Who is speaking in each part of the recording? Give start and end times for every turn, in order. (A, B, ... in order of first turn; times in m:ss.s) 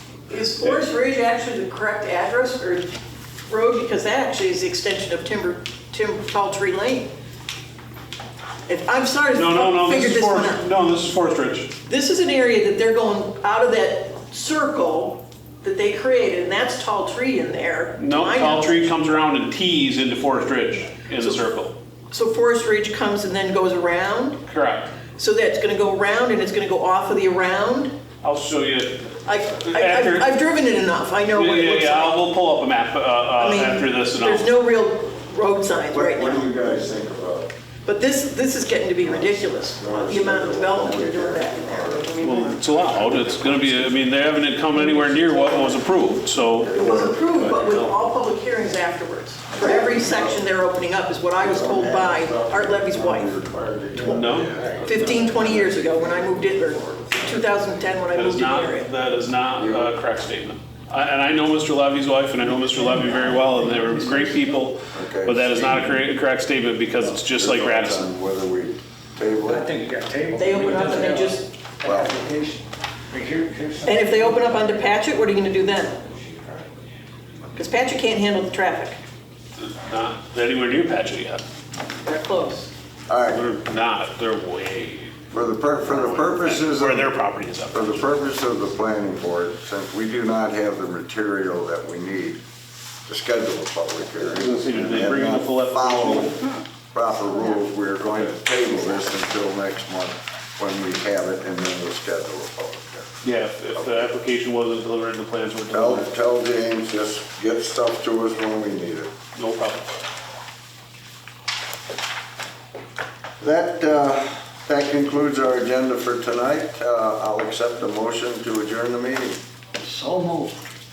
0:00.3-0:02.9 A
0:03.5-0:07.1 A
0:08.7-0:10.6 A
0:09.3-0:11.7 B
0:11.9-0:18.9 A
0:18.0-0:21.7 B
0:21.1-0:21.5 A
0:22.1-0:24.4 A
0:24.4-0:25.0 B
0:25.1-0:27.9 A
0:28.2-0:30.3 B
0:29.2-0:32.2 A
0:31.3-0:34.4 B
0:33.4-0:36.4 A
0:35.9-0:37.5 C
0:37.8-0:42.1 A
0:39.0-0:43.9 C
0:42.2-0:48.0 B
0:46.6-0:47.2 C
0:46.7-0:53.3 A
0:49.6-0:50.4 C
0:51.4-0:57.9 C
0:54.0-0:55.3 D
0:54.0-0:54.6 B
0:54.8-0:58.9 A
0:58.1-1:08.1 B
0:59.6-0:59.9 C
1:02.5-1:04.5 D
1:04.9-1:06.0 C
1:07.1-1:09.7 C
1:09.4-1:14.6 D
1:10.4-1:11.5 A
1:11.8-1:12.2 C
1:13.8-1:16.0 A
1:17.5-1:19.0 A
1:19.6-1:21.4 B
1:22.0-1:22.7 A
1:23.1-1:23.5 C
1:23.3-1:25.1 B
1:25.3-1:27.1 C
1:25.8-1:28.1 B
1:27.7-1:32.4 C
1:33.0-1:43.1 C
1:34.3-1:36.4 B
1:43.2-1:46.1 B
1:43.7-1:44.1 C
1:45.7-1:49.1 C
1:49.3-1:49.9 B
1:53.4-1:59.4 C
1:59.8-2:00.7 D